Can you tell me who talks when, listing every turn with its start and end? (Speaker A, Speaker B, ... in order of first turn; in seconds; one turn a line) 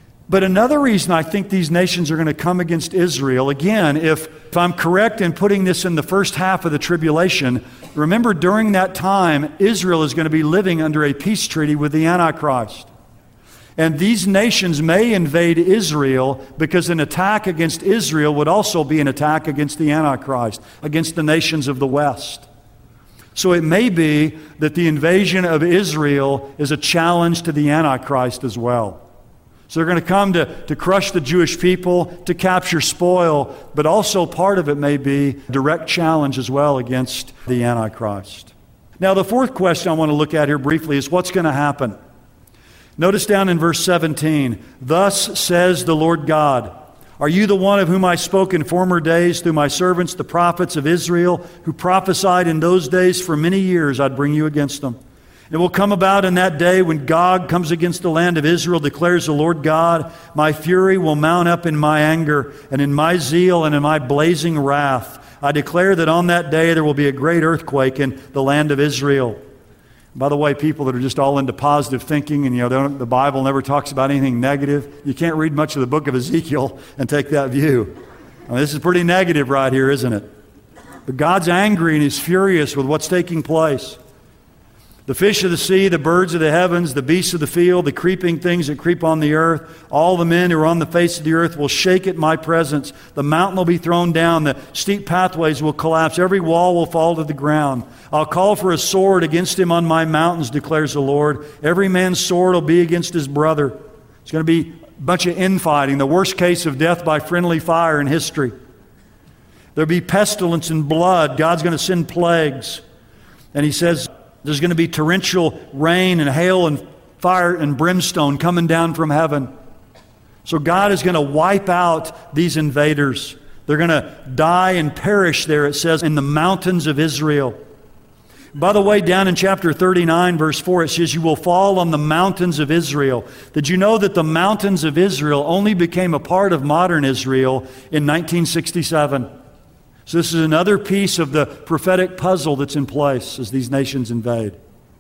Speaker A: 0.3-12.9
Speaker A: 13.8-22.5
Speaker A: 23.4-29.0
Speaker A: 29.7-42.0
Speaker A: 43.0-55.0
Speaker A: 55.5-69.4
Speaker A: 70.2-77.9
Speaker A: 78.5-80.3
Speaker A: 81.1-84.0
Speaker A: 85.1-108.5
Speaker A: 109.8-112.8
Speaker A: 113.5-119.5
Speaker A: 120.5-127.6
Speaker A: 128.6-139.3
Speaker A: 140.1-144.6